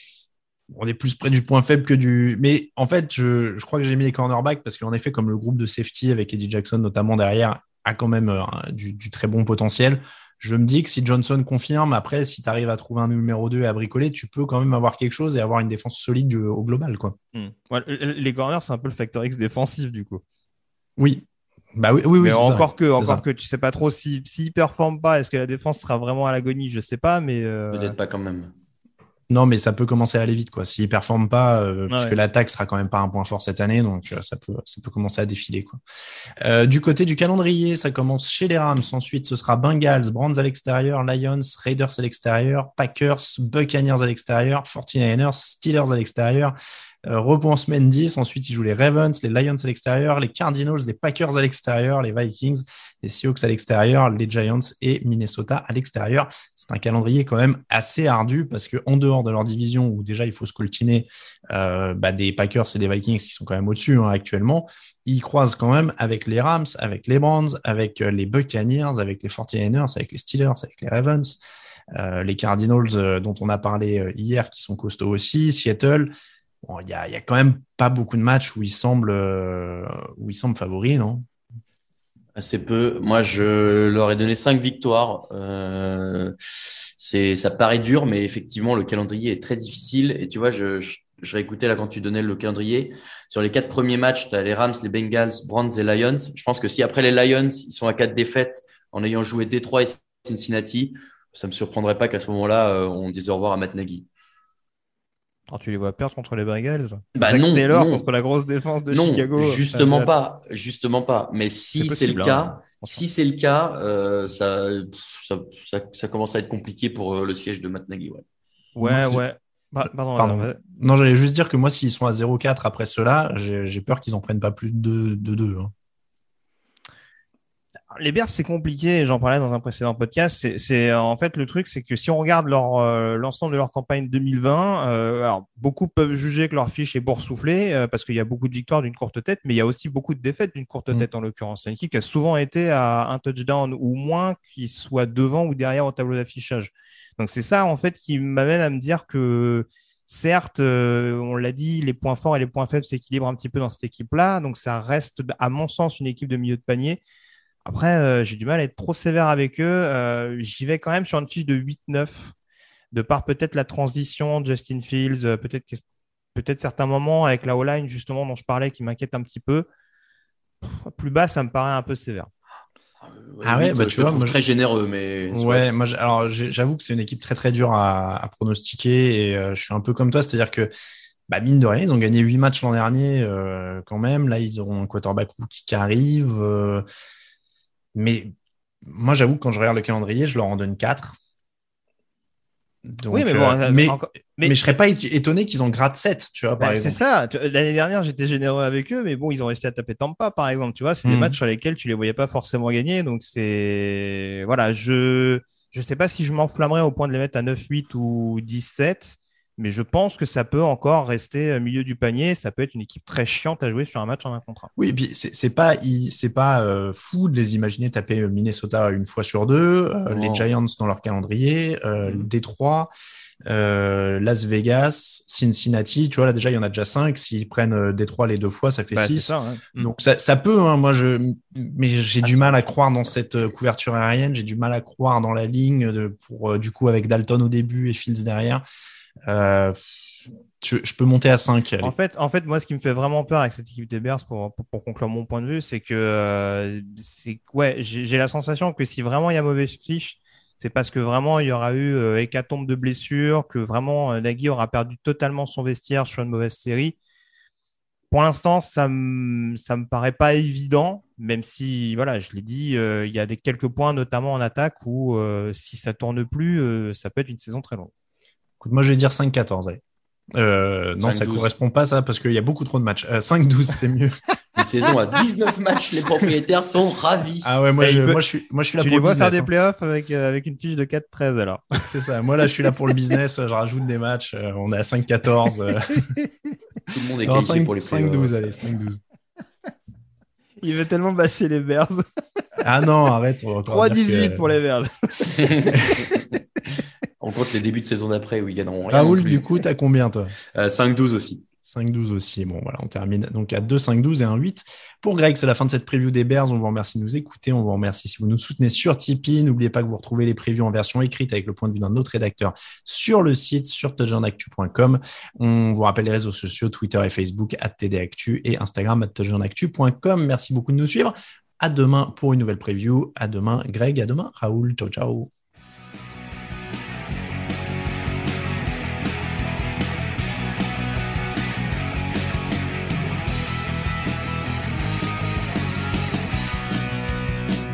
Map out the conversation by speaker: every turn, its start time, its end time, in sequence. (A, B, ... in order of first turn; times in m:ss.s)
0:00.7-0:17.2 A
0:17.3-0:20.2 B
0:21.0-0:21.2 A
0:21.8-0:23.2 A
0:22.2-0:28.0 B
0:27.7-0:28.5 C
0:29.3-0:35.8 A
0:31.9-0:32.2 B
0:36.4-0:46.6 A
0:47.1-1:11.4 A
1:12.0-1:16.1 A
1:16.6-1:21.2 A
1:22.4-1:26.3 C
1:27.0-1:44.1 C
1:45.5-1:50.1 B
1:47.2-1:48.1 C
1:48.9-1:58.2 C
1:51.8-1:53.0 B
1:58.8-2:00.6 B
1:58.8-1:59.2 A
2:00.2-2:05.7 A
2:07.9-2:37.0 B
2:37.6-2:42.3 B
2:42.9-2:45.8 B
2:46.4-2:49.7 B
2:50.6-2:52.3 B
2:53.0-2:55.7 C
2:53.4-2:54.4 A
2:55.3-3:00.7 A
3:01.3-3:06.8 A
3:08.0-3:08.3 A
3:08.9-3:11.2 A
3:12.9-3:17.0 A
3:13.1-3:14.8 B
3:16.6-3:34.7 B
3:21.0-3:21.4 A
3:34.8-3:42.9 A
3:40.1-3:40.5 C
3:42.0-3:42.3 B
3:43.5-3:58.6 A
3:48.9-3:49.9 B
3:52.2-3:53.1 C
3:59.3-4:00.0 A
4:00.6-4:02.0 A
4:01.8-4:17.0 B
4:18.1-4:27.9 B
4:28.6-4:29.8 A
4:30.4-4:34.2 A
4:31.0-4:31.5 C
4:34.6-4:37.5 C
4:37.4-4:39.5 A
4:37.8-4:38.2 B
4:38.8-4:41.6 B
4:41.8-4:46.0 A
4:46.9-4:48.4 C
4:47.2-4:49.0 A
4:50.6-4:52.2 B
4:52.6-4:54.6 A
4:53.6-4:56.2 B
4:55.4-4:55.8 C
4:57.2-4:59.4 C
4:58.9-5:00.3 A
5:00.6-5:01.4 C
5:01.6-5:25.3 A